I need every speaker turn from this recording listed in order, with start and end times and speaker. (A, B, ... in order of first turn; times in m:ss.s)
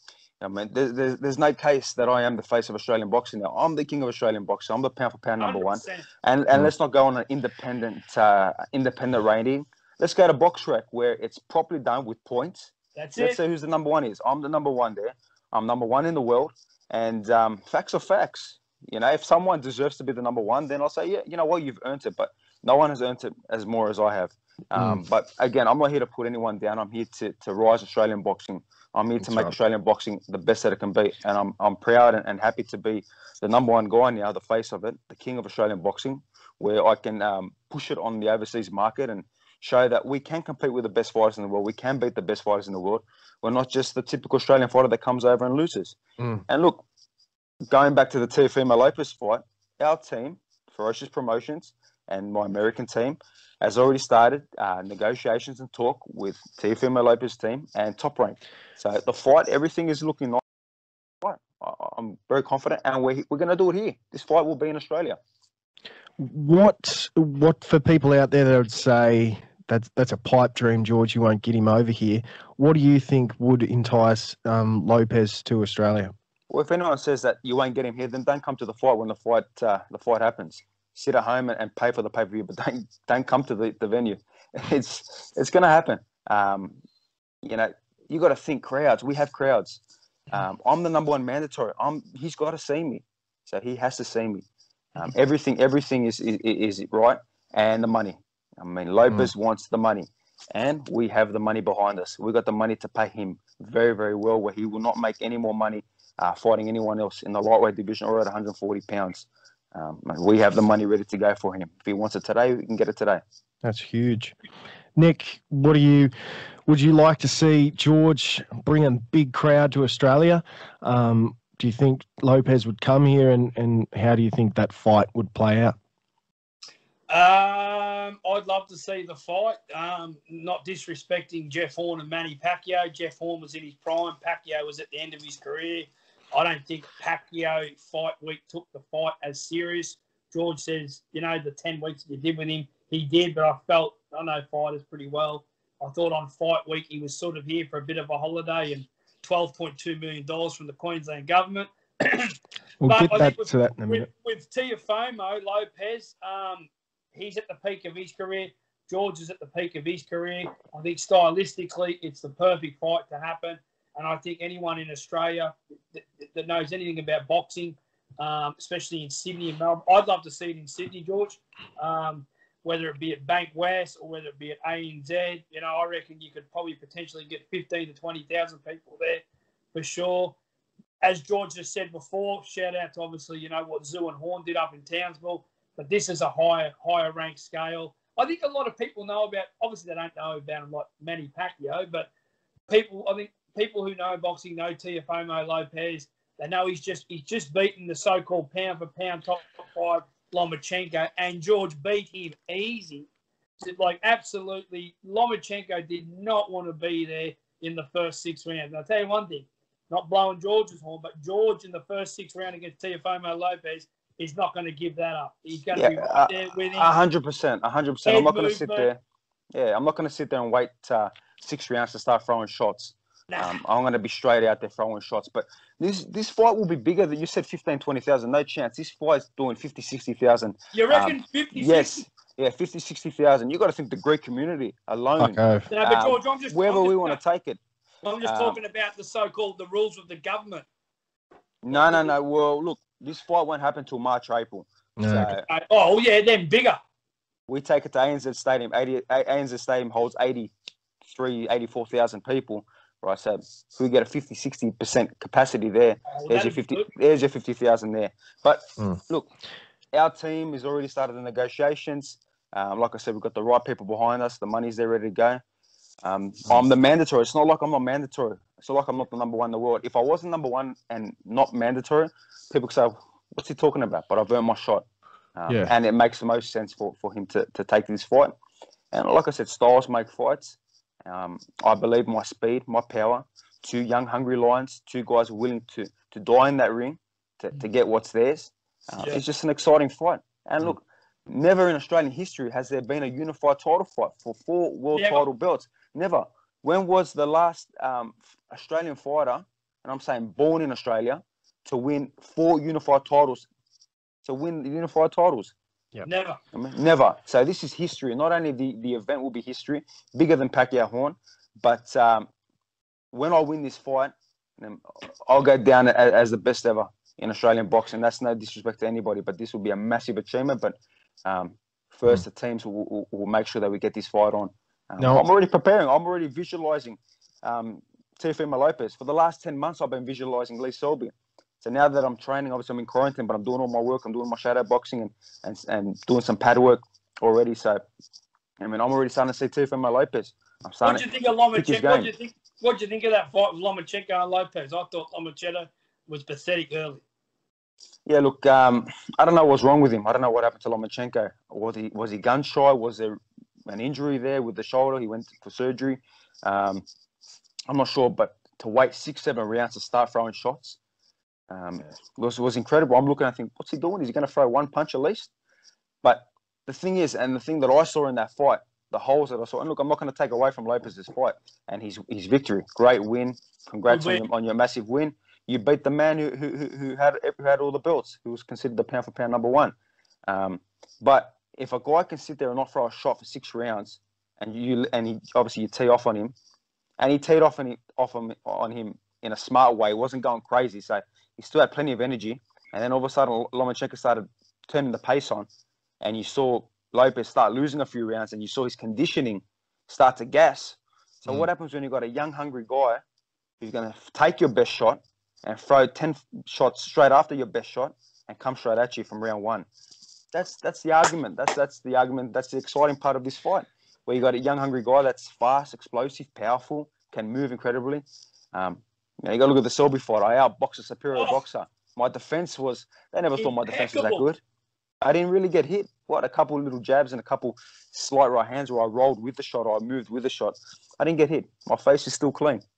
0:00.4-0:46.8 A
0:05.4-0:06.1 B
0:12.9-0:13.4 B
0:24.7-0:25.0 C
0:29.2-0:29.5 C
0:47.7-1:00.4 A
1:01.2-1:05.2 A
1:06.2-1:16.1 C
1:16.5-1:26.8 A
1:27.4-1:34.4 A
1:34.9-1:53.2 A
1:53.6-1:54.3 C
1:54.9-1:56.1 C
1:56.6-2:05.7 C
2:07.1-3:00.4 B
2:32.8-2:34.1 C
3:01.0-3:12.1 B
3:12.7-3:23.1 B
3:23.6-3:36.9 B
3:35.7-3:39.0 A
3:38.0-3:38.9 B
3:39.5-3:57.6 A
3:43.3-3:43.6 B
3:50.7-3:52.0 B
3:55.2-3:55.7 C
3:55.7-3:57.2 B
3:58.0-4:00.6 B
3:58.2-3:58.6 A
4:01.6-4:05.4 A
4:01.7-4:02.1 B
4:05.0-4:05.3 C
4:05.3-4:06.8 B
4:07.5-4:10.5 A
4:11.0-4:19.3 A
4:16.1-4:16.9 B
4:19.9-4:25.4 A
4:26.0-4:38.3 A
4:38.9-5:03.5 A
4:54.9-4:55.2 B
5:04.2-5:05.5 A
5:06.0-5:06.4 B
5:06.5-5:12.3 A
5:13.1-5:37.8 A
5:25.0-5:25.2 C
5:38.6-5:41.0 A
5:40.8-5:47.0 B
5:41.6-5:42.1 A
5:48.0-5:56.8 A
5:57.7-6:00.8 A
6:01.5-6:05.3 A
6:06.0-6:19.7 A
6:13.9-6:14.2 B
6:20.3-6:26.3 A
6:27.0-6:35.5 A
6:36.0-6:43.0 A
6:43.6-6:49.7 A
6:50.3-7:04.4 A
7:01.1-7:01.4 B
7:03.4-7:04.2 B
7:05.0-7:12.6 A